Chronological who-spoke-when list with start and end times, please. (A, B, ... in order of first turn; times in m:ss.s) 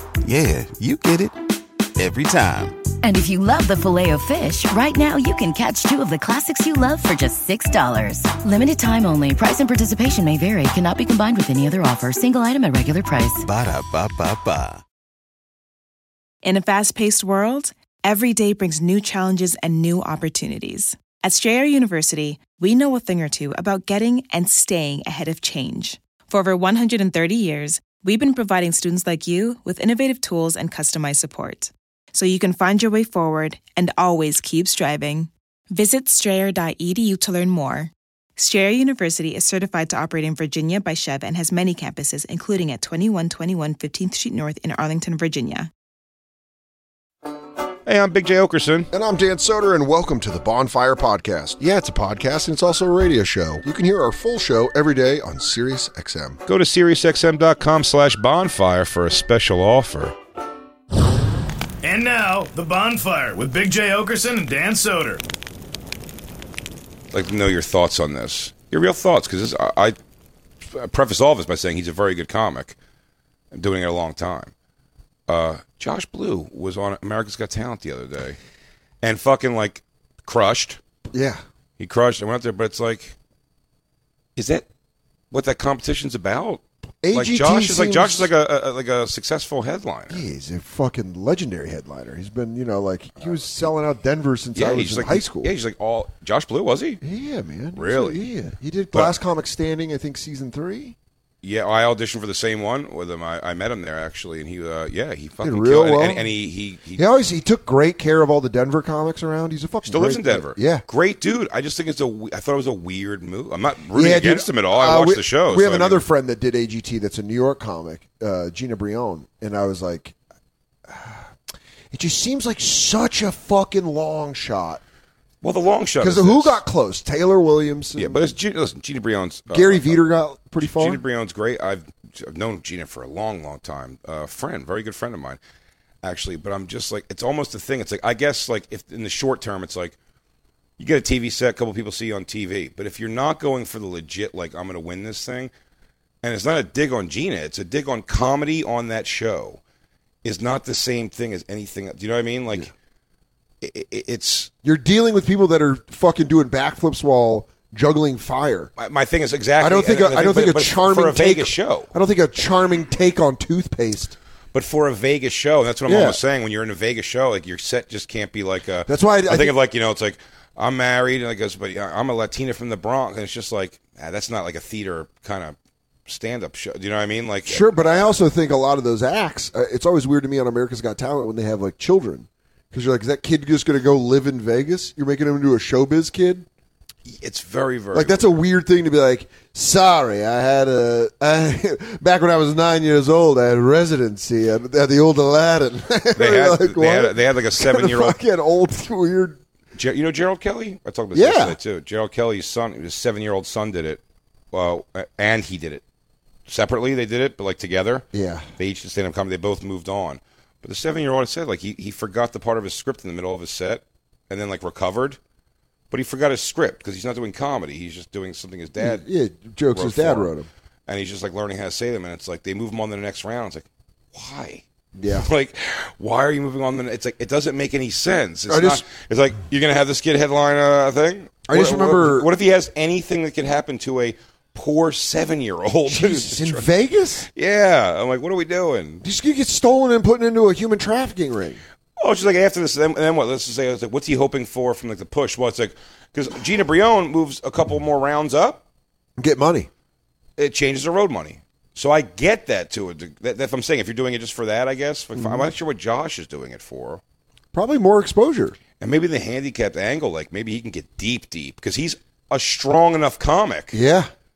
0:00.2-0:01.4 A
0:02.0-0:02.8 A
0:03.0-0:13.4 B
0:13.4-0:14.8 A
0:16.4-0:45.7 C
0:47.8-0:48.9 D
0:48.9-0:56.4 E
0:56.5-1:00.1 D
1:01.8-1:05.2 F
1:07.1-1:10.0 D
1:10.6-1:12.8 D
1:13.5-1:14.5 D
1:15.3-1:18.4 D
1:19.0-1:20.8 D
1:21.1-1:21.4 E
1:21.8-1:23.2 D
1:24.4-1:24.7 D
1:25.3-1:30.2 D
1:27.0-1:28.3 E
1:30.1-1:35.5 E
1:34.5-1:37.0 D
1:37.0-1:41.0 E
1:37.7-1:38.3 D
1:41.4-1:47.0 D
1:45.4-1:46.3 E
1:46.9-1:50.8 E
1:49.8-1:56.0 D
1:53.9-2:00.1 E
2:00.9-2:01.3 E
2:01.9-2:04.8 E
2:05.4-2:06.6 D
2:06.0-2:08.3 E
2:08.0-2:10.0 D
2:09.5-2:11.0 E
2:10.6-2:15.4 D
2:16.0-2:20.0 D
2:20.8-2:25.5 D
2:26.2-2:29.6 D
2:30.2-2:32.7 D
2:33.6-2:34.5 D
2:34.6-2:38.7 E
2:38.8-2:41.9 D
2:39.6-2:44.2 E
2:44.5-2:55.6 D
2:45.9-2:46.2 E
2:48.9-2:49.5 E
2:56.1-2:57.6 D
2:57.4-3:06.4 E
3:07.0-3:08.2 D
3:07.9-3:19.4 E
3:16.2-3:18.2 D
3:19.7-3:25.8 D
3:21.1-3:21.6 E
3:26.5-3:28.0 D
3:28.1-3:28.5 E
3:28.6-3:35.2 D
3:35.9-3:39.0 D
3:38.8-3:40.5 E
3:39.7-3:40.3 D
3:40.9-3:56.7 D
3:45.0-3:45.3 E
3:48.5-3:48.8 E
3:51.4-3:52.3 E
3:55.9-3:57.3 E
3:57.3-3:59.0 D
3:59.0-4:01.6 E
4:02.0-4:08.6 D
4:09.2-4:09.7 E
4:10.4-4:17.0 D
4:15.2-4:15.5 E
4:17.5-4:18.6 E
4:18.8-4:23.8 D
4:23.7-4:24.1 E